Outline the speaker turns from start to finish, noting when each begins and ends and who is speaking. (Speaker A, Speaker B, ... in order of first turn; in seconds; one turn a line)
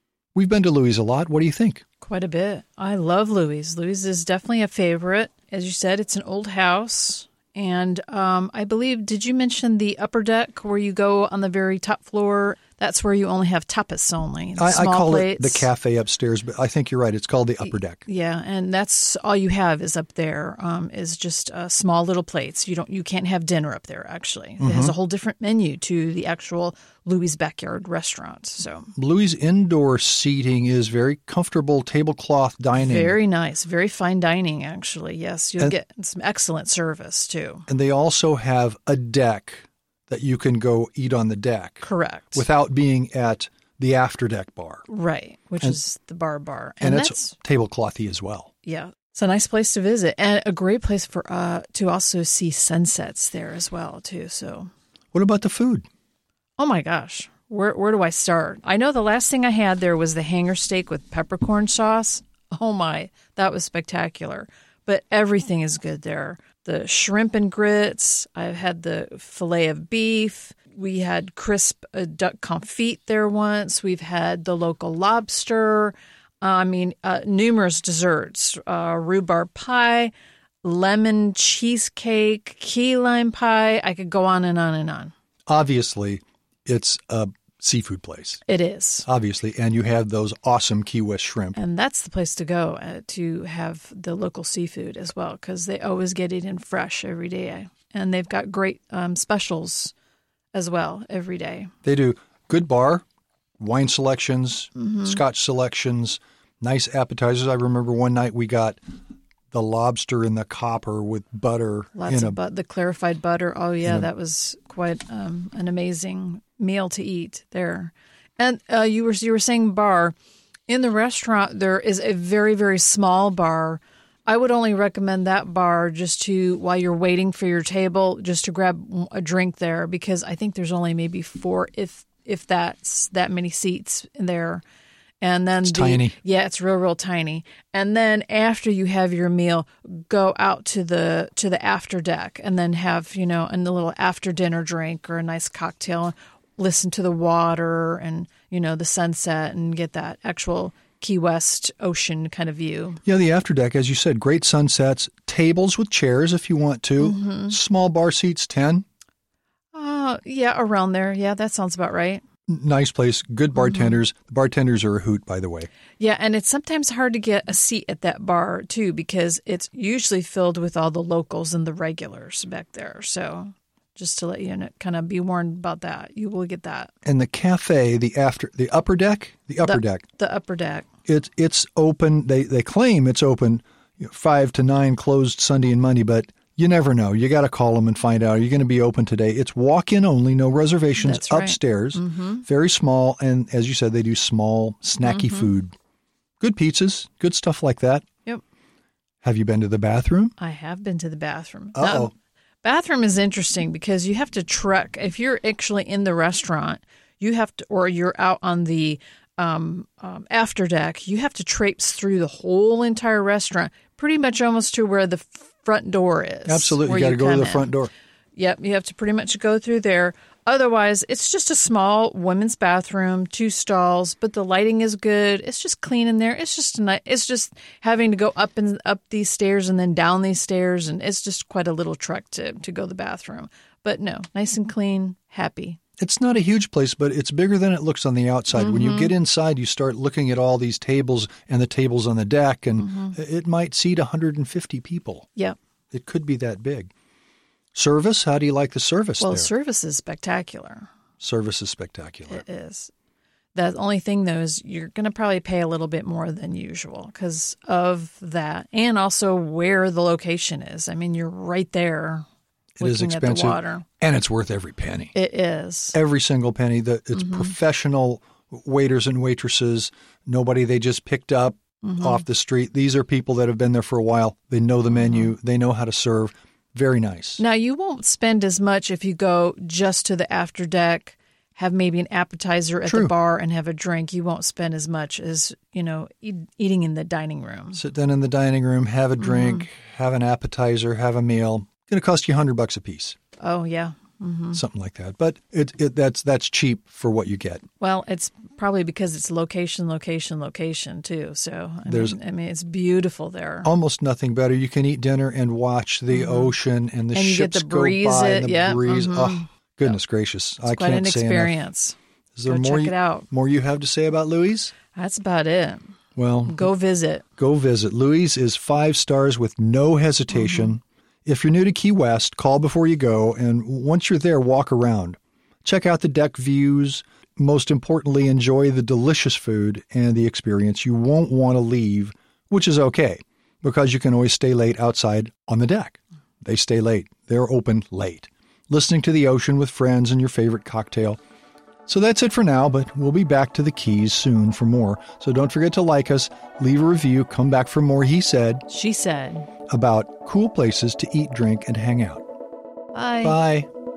Speaker A: 0.3-1.8
Speaker B: 2.0-15.7
Speaker A: 14.6-18.0
Speaker B: 17.6-28.9
Speaker A: 24.6-24.9
Speaker A: 29.0-33.2
Speaker B: 32.8-37.6
Speaker A: 37.7-44.9
Speaker B: 41.8-42.5
Speaker B: 44.9-47.3
Speaker A: 46.8-48.5
Speaker B: 48.6-54.7
Speaker A: 55.1-55.9
Speaker B: 56.6-80.1
Speaker B: 80.6-85.1
Speaker A: 85.5-88.4
Speaker B: 88.5-89.1
Speaker A: 89.1-91.6
Speaker B: 91.5-99.9
Speaker B: 100.5-101.7
Speaker A: 101.8-103.0
Speaker A: 103.6-108.8
Speaker B: 104.8-105.2
Speaker A: 109.5-112.4
Speaker B: 112.0-120.2
Speaker A: 113.8-114.1
Speaker B: 120.7-134.6
Speaker B: 135.2-153.0
Speaker A: 135.6-136.2
Speaker A: 153.1-158.8
Speaker B: 157.0-157.6
Speaker B: 159.7-162.2
Speaker A: 162.5-165.7
Speaker B: 163.6-164.0
Speaker B: 166.0-176.9
Speaker A: 177.1-180.0
Speaker B: 179.6-180.9
Speaker A: 181.1-195.7
Speaker B: 191.0-192.4
Speaker B: 195.0-195.5
Speaker A: 196.4-198.1
Speaker A: 199.2-200.3
Speaker B: 200.4-217.8
Speaker A: 201.8-202.1
Speaker A: 216.5-217.9
Speaker B: 218.4-235.8
Speaker A: 236.0-245.3
Speaker B: 238.5-239.1
Speaker B: 242.8-243.2
Speaker A: 245.9-246.9
Speaker A: 247.7-249.5
Speaker B: 249.2-250.9
Speaker A: 251.2-252.4
Speaker B: 252.3-252.9
Speaker B: 253.6-262.2
Speaker A: 262.8-265.1
Speaker B: 262.8-263.9
Speaker B: 265.1-266.0
Speaker A: 265.9-277.4
Speaker B: 267.1-267.5
Speaker B: 271.8-272.2
Speaker B: 274.9-275.3
Speaker B: 277.4-287.8
Speaker A: 282.9-283.1
Speaker A: 287.7-293.2
Speaker B: 289.2-289.6
Speaker B: 293.4-294.6
Speaker A: 294.5-297.6
Speaker B: 297.8-303.7
Speaker A: 301.9-302.2
Speaker A: 303.6-311.6
Speaker B: 306.1-306.5
Speaker B: 307.1-310.0
Speaker B: 310.7-313.3
Speaker A: 312.4-314.7
Speaker B: 314.9-317.3
Speaker A: 316.2-316.7
Speaker A: 317.4-341.2
Speaker B: 320.3-320.7
Speaker A: 341.9-348.6
Speaker B: 348.7-349.5
Speaker A: 349.7-352.2
Speaker B: 352.9-353.4
Speaker A: 353.2-353.7